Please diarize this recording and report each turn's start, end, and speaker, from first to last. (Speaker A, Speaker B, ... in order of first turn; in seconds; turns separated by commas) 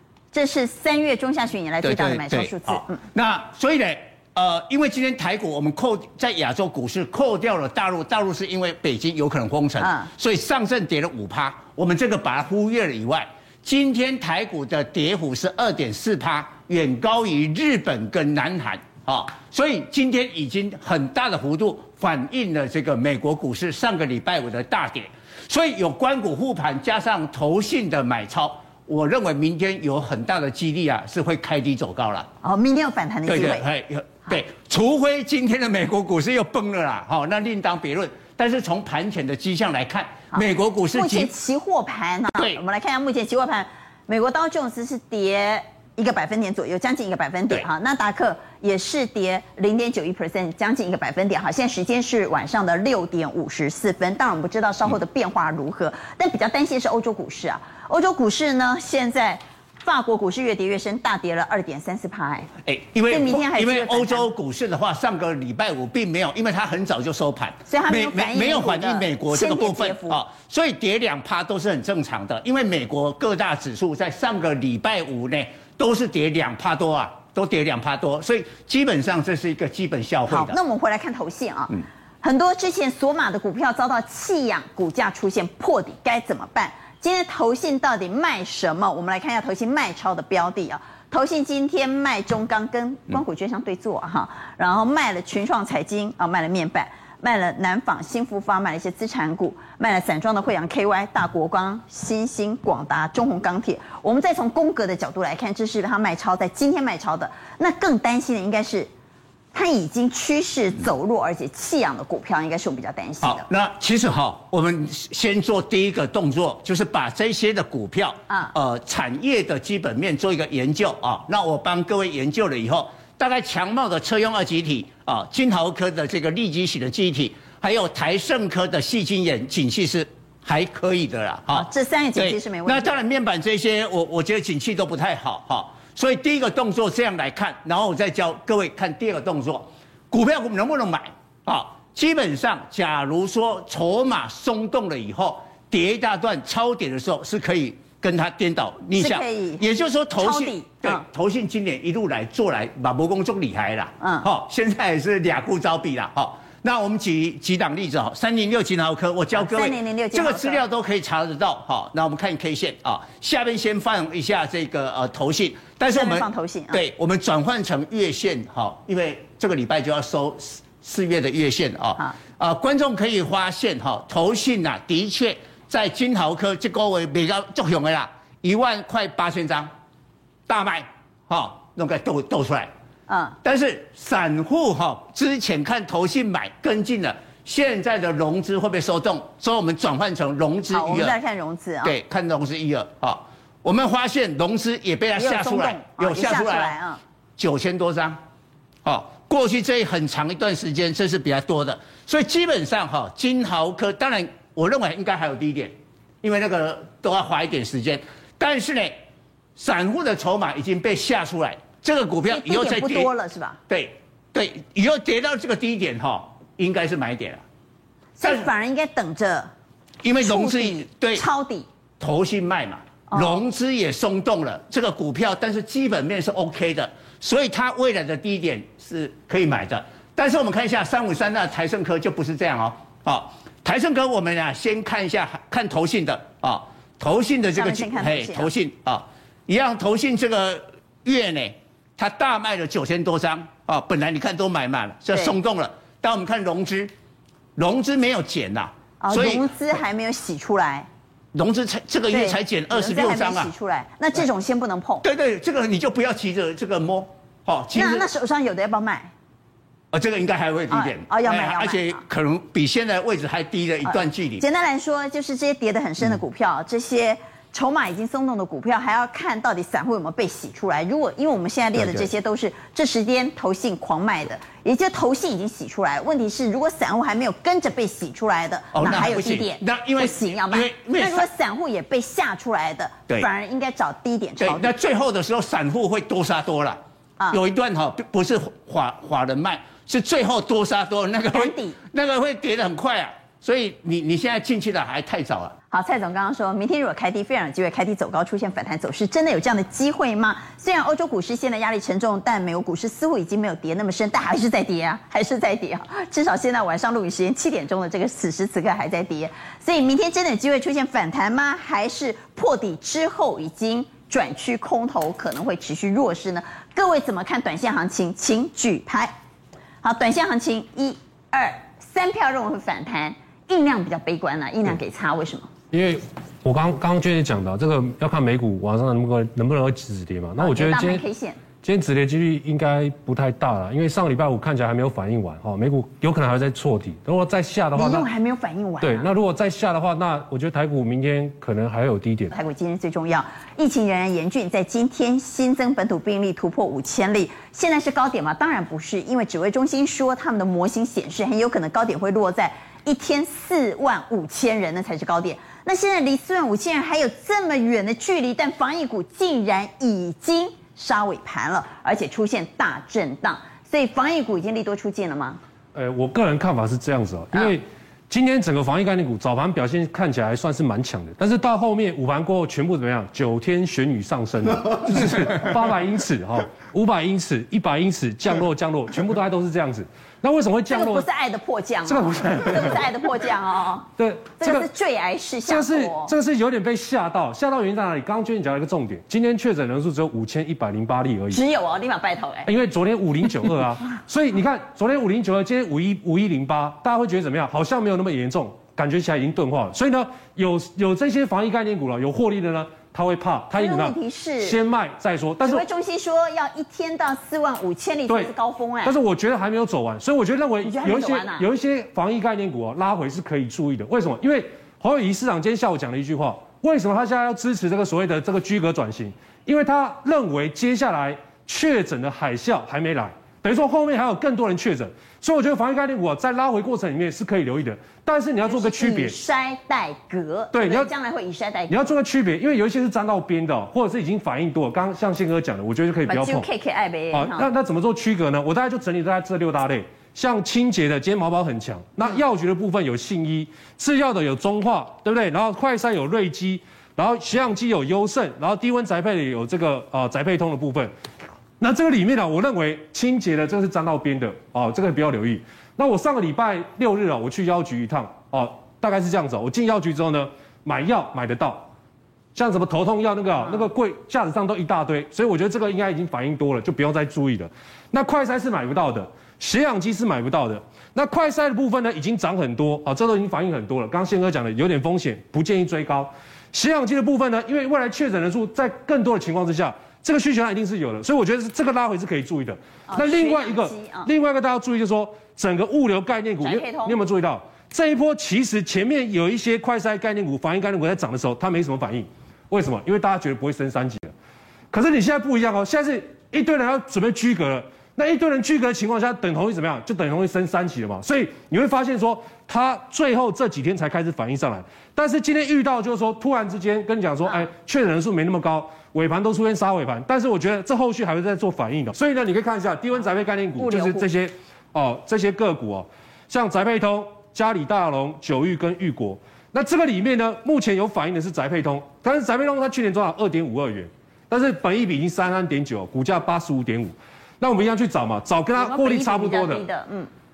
Speaker A: 0.3-3.0, Speaker B: 1.8-32.3, Speaker A: 9.8-10.1, Speaker A: 32.4-33.6, Speaker B: 33.3-41.3, Speaker A: 40.9-62.5, Speaker B: 62.6-80.6, Speaker A: 63.1-64.3, Speaker A: 67.7-70.2, Speaker A: 80.3-108.9, Speaker A: 109.5-113.4, Speaker B: 113.2-179.7, Speaker A: 131.5-133.0, Speaker A: 148.9-149.6, Speaker A: 150.2-151.0, Speaker A: 154.0-154.3, Speaker A: 159.3-160.6, Speaker A: 165.9-166.8, Speaker B: 180.5-182.7, Speaker A: 183.1-183.4, Speaker B: 183.4-191.1, Speaker A: 190.7-191.9, Speaker B: 191.8-196.7, Speaker A: 195.2-197.0, Speaker B: 197.4-198.2, Speaker B: 198.8-209.0, Speaker B: 209.6-213.1, Speaker A: 212.3-213.6, Speaker B: 213.7-217.4, Speaker A: 218.2-219.5, Speaker B: 218.2-218.5, Speaker B: 220.0-221.2, Speaker A: 220.2-221.7, Speaker B: 222.0-246.9, Speaker A: 223.1-223.4, Speaker A: 237.5-238.5, Speaker B: 247.6-249.5, Speaker A: 249.0-250.9, Speaker B: 251.3-253.5, Speaker A: 252.1-255.1, Speaker B: 255.0-258.1, Speaker A: 257.7-259.1, Speaker B: 259.9-264.4, Speaker A: 260.7-262.0, Speaker A: 263.8-284.7, Speaker B: 271.8-272.1, Speaker B: 278.7-281.3, Speaker B: 284.4-286.8, Speaker B: 287.3-295.5, Speaker A: 291.3-291.8, Speaker A: 295.7-319.1, Speaker A: 319.8-325.5, Speaker C: 325.7-331.0, Speaker A: 330.4-331.4, Speaker C: 331.6-338.1, Speaker A: 337.7-339.1, Speaker C: 338.8-342.3, Speaker A: 342.3-365.4, Speaker C: 365.7-381.1, Speaker A: 380.7-386.1, Speaker C: 381.9-382.9, Speaker C: 384.0-384.7, Speaker C: 385.5-391.4, Speaker A: 391.3-392.5, Speaker C: 392.4-405.6, Speaker A: 403.5-404.6, Speaker A: 405.4-409.0, Speaker C: 408.8-429.1, Speaker A: 410.6-411.4, Speaker A: 428.4-431.9, Speaker C: 430.5-430.9, Speaker C: 431.7-436.5, Speaker A: 436.1-437.5, Speaker C: 437.1-450.9, Speaker C: 451.6-461.7, Speaker C: 462.3-494.1, Speaker A: 482.9-484.1, Speaker A: 486.4-487.0, Speaker C: 494.7-529.6, Speaker A: 513.6-514.0, Speaker A: 528.5-530.1